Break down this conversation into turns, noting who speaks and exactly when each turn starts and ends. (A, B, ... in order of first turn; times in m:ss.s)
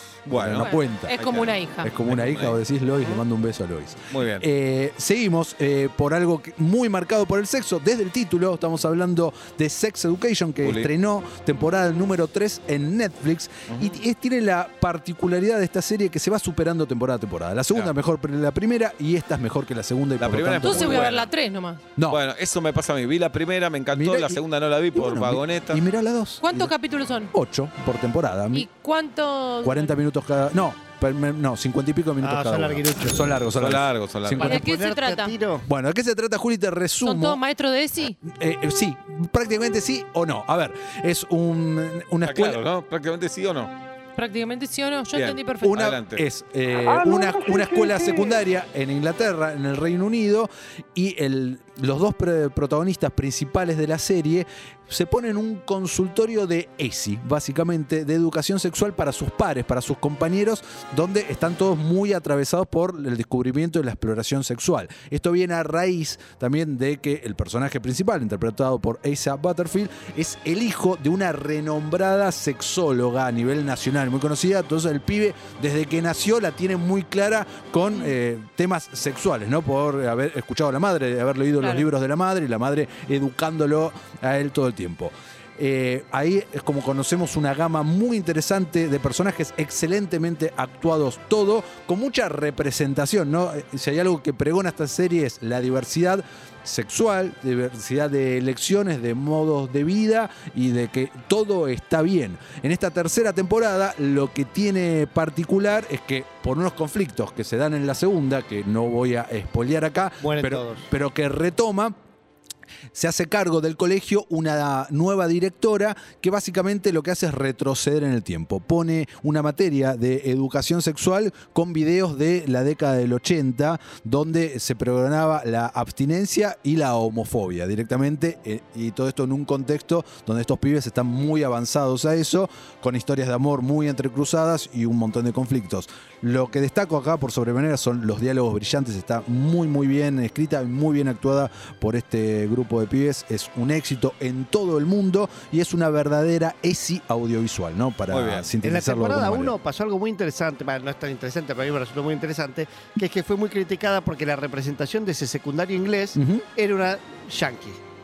0:00.2-0:02.6 A
0:00.3-0:01.2 B
0:00.6-0:01.9 C
0:01.8-0:21.1 B
0:04.1-0:04.4 A
0:10.6-0:10.9 A
0:13.7-0:14.0 A
0:20.2-0:21.3 A
0:20.6-0:21.8 C
0:22.0-0:22.2 B
0:22.1-0:25.8 A
0:23.9-0:24.4 B
0:24.9-0:26.7 B
0:26.4-0:27.3 C
0:27.3-0:28.7 B
0:28.5-0:29.9 C
0:29.6-0:34.7 B
0:32.2-0:33.3 D
0:33.6-0:34.6 A
0:34.4-0:35.6 D
0:34.4-0:35.3 C
0:35.6-0:37.4 B
0:37.0-0:38.2 C
0:38.2-0:42.6 B
0:42.2-0:43.7 A
0:44.2-0:45.7 C
0:45.1-0:46.2 A
0:45.6-1:51.9 B
1:21.6-1:21.8 C
1:50.2-1:50.8 D
1:52.9-2:29.6 B
2:28.1-2:28.5 A
2:28.6-2:37.8 D
2:36.1-2:36.4 B